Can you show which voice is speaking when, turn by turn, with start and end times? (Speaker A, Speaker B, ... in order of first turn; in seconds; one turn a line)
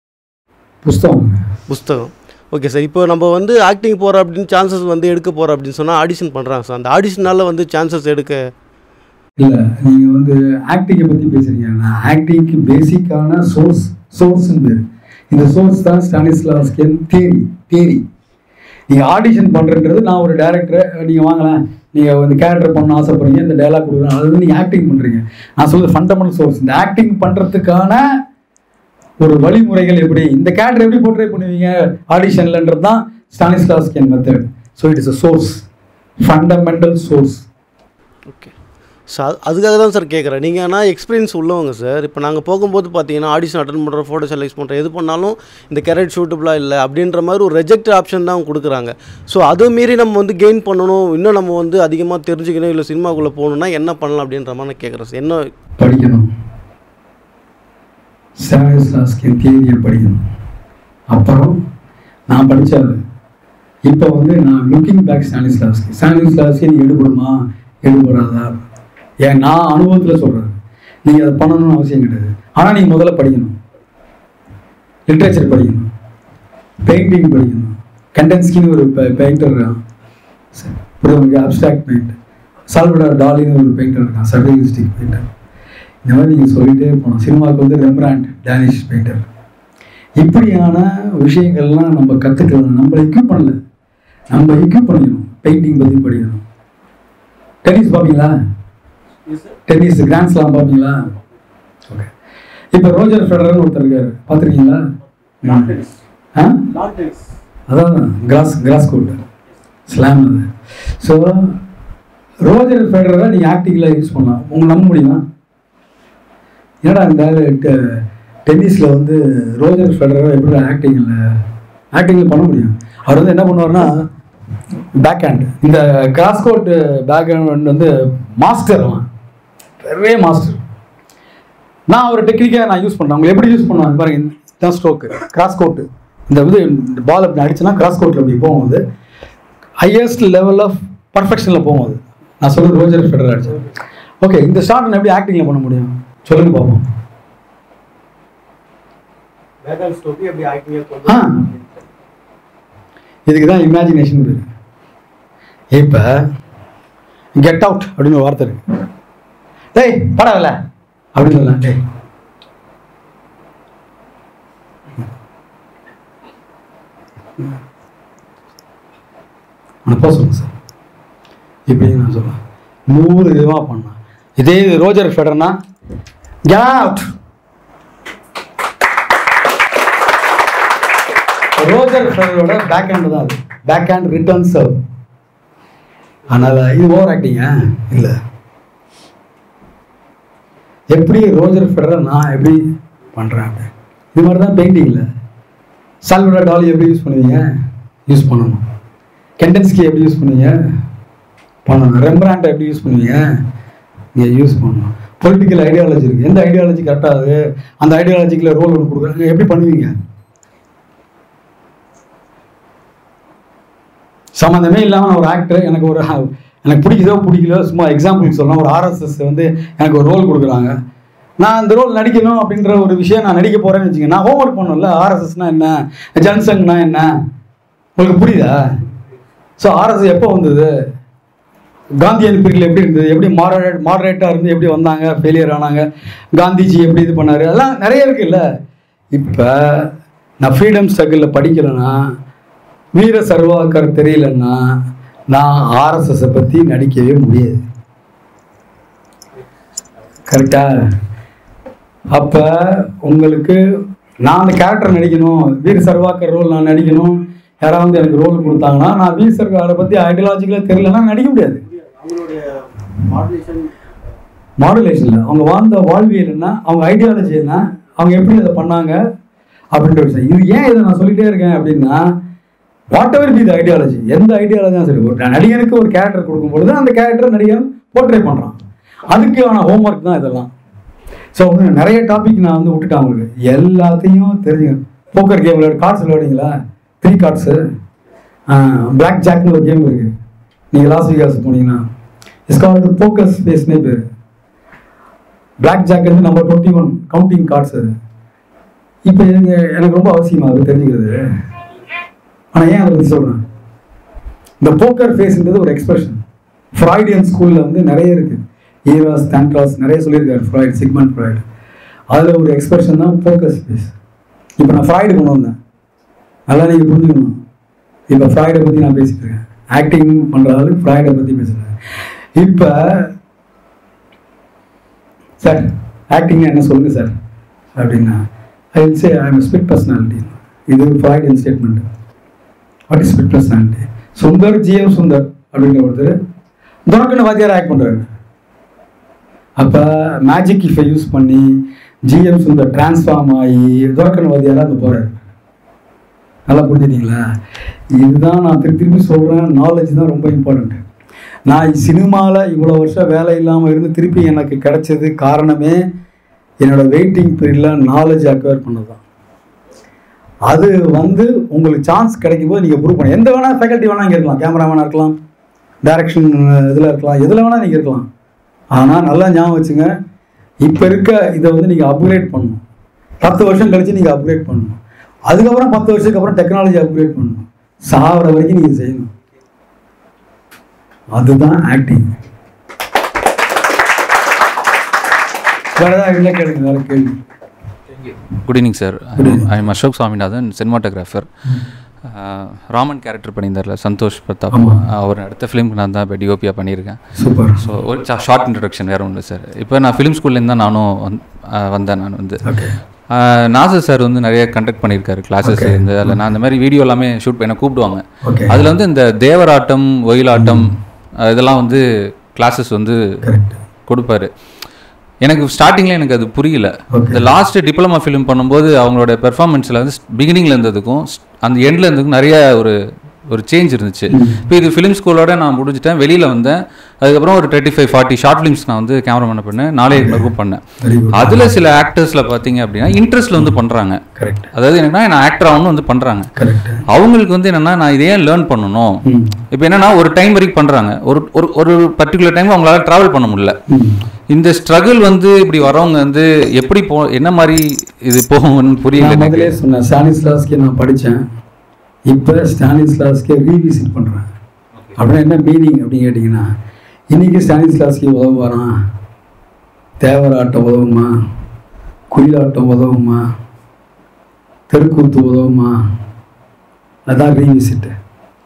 Speaker A: 0.8-1.4
Speaker B: 1.7-8.4
Speaker A: 9.4-18.0
Speaker A: 18.9-28.0
Speaker A: 29.2-35.6
Speaker A: 36.2-37.5
Speaker B: 39.1-55.5
Speaker A: 55.8-56.3
Speaker A: 58.4-60.2
Speaker A: 61.1-61.6
Speaker A: 62.3-63.0
Speaker A: 63.9-68.6
Speaker A: 69.2-73.5
Speaker A: 75.1-75.9
Speaker A: 76.8-79.8
Speaker A: 80.5-82.1
Speaker A: 82.7-85.2
Speaker A: 86.0-89.3
Speaker A: 90.2-93.5
Speaker A: 94.3-96.4
Speaker A: 97.7-98.3
Speaker A: 99.7-101.0
Speaker A: 102.7-104.8
Speaker A: 105.4-105.8
Speaker B: 105.5-105.8
Speaker B: 106.7-107.2
Speaker A: 107.7-109.2
Speaker A: 109.9-110.5
Speaker A: 111.0-111.6
Speaker A: 112.5-115.2
Speaker A: 116.8-121.2
Speaker A: 121.9-124.1
Speaker A: 125.0-129.1
Speaker A: 129.8-130.6
Speaker A: 131.9-138.8
Speaker A: 139.8-143.6
Speaker A: 144.2-146.8
Speaker B: 149.7-151.1
Speaker A: 151.1-151.5
Speaker A: 153.3-154.5
Speaker A: 155.7-156.2
Speaker A: 157.4-158.6
Speaker A: 159.8-160.6
Speaker A: 161.2-161.8
Speaker A: 169.9-170.5
Speaker A: 171.7-172.4
Speaker A: 172.9-175.6
Speaker A: 176.5-177.1
Speaker A: 181.6-184.8
Speaker A: 186.3-188.2
Speaker A: 190.9-192.6
Speaker A: 193.2-195.1
Speaker A: 196.1-197.4
Speaker A: 198.1-198.6
Speaker A: 199.4-200.6
Speaker A: 201.7-203.2
Speaker A: 204.2-209.9
Speaker A: 214.4-220.7
Speaker A: 221.4-227.1
Speaker A: 228.0-228.7
Speaker A: 229.6-230.7
Speaker A: 232.0-238.4
Speaker A: 239.1-239.9
Speaker A: 240.4-242.1
Speaker A: 242.9-244.6
Speaker A: 245.3-247.6
Speaker A: 250.3-250.8
Speaker A: 252.1-253.6
Speaker A: 254.2-261.6
Speaker B: 262.0-262.4
Speaker B: 263.1-263.7
Speaker A: 264.6-269.0
Speaker A: 269.7-272.1
Speaker A: 272.9-278.6
Speaker A: 279.1-280.5
Speaker A: 281.4-287.6
Speaker A: 288.5-290.1
Speaker A: 290.7-291.8
Speaker A: 292.5-294.0
Speaker A: 295.6-297.9
Speaker A: 299.1-301.2
Speaker A: 302.5-303.4
Speaker A: 304.6-306.2
Speaker A: 306.8-311.4
Speaker A: 312.1-313.9
Speaker A: 314.6-315.6
Speaker A: 316.5-317.3
Speaker A: 318.1-321.7
Speaker A: 322.4-323.1
Speaker A: 325.4-327.1
Speaker A: 327.8-328.2
Speaker A: 328.8-331.8
Speaker A: 332.9-336.1
Speaker A: 336.9-338.1
Speaker A: 339.6-341.5
Speaker A: 342.1-345.2
Speaker A: 346.5-347.2
Speaker A: 348.0-350.8
Speaker A: 351.5-355.8
Speaker A: 356.6-359.0
Speaker A: 360.5-365.1
Speaker A: 365.8-368.1
Speaker A: 368.8-369.9
Speaker A: 370.6-372.6
Speaker A: 373.2-379.1
Speaker A: 381.1-382.1
Speaker A: 385.8-387.1
Speaker C: 388.4-391.3
Speaker A: 389.2-389.5
Speaker C: 392.0-397.0
Speaker A: 394.5-394.8
Speaker A: 397.2-397.6
Speaker C: 397.6-402.4
Speaker A: 402.4-402.8
Speaker C: 403.1-411.8
Speaker A: 405.4-406.2
Speaker A: 408.2-408.6
Speaker A: 410.4-410.7
Speaker C: 412.4-413.0
Speaker A: 413.2-413.6
Speaker C: 413.9-414.3
Speaker C: 415.2-422.8
Speaker A: 416.9-417.2
Speaker C: 423.3-430.6
Speaker A: 424.1-424.4
Speaker A: 429.9-430.3
Speaker A: 430.8-431.5
Speaker C: 431.1-434.0
Speaker A: 434.2-434.5
Speaker C: 434.5-436.3
Speaker A: 436.4-436.8
Speaker C: 436.9-439.0
Speaker A: 439.1-439.4
Speaker C: 439.5-443.6
Speaker A: 443.7-444.0
Speaker C: 444.3-449.6
Speaker A: 449.0-451.2
Speaker A: 452.1-454.3
Speaker A: 455.0-456.5
Speaker A: 457.1-458.7
Speaker A: 460.0-461.1
Speaker A: 462.1-463.2
Speaker A: 464.7-465.7
Speaker A: 467.1-467.9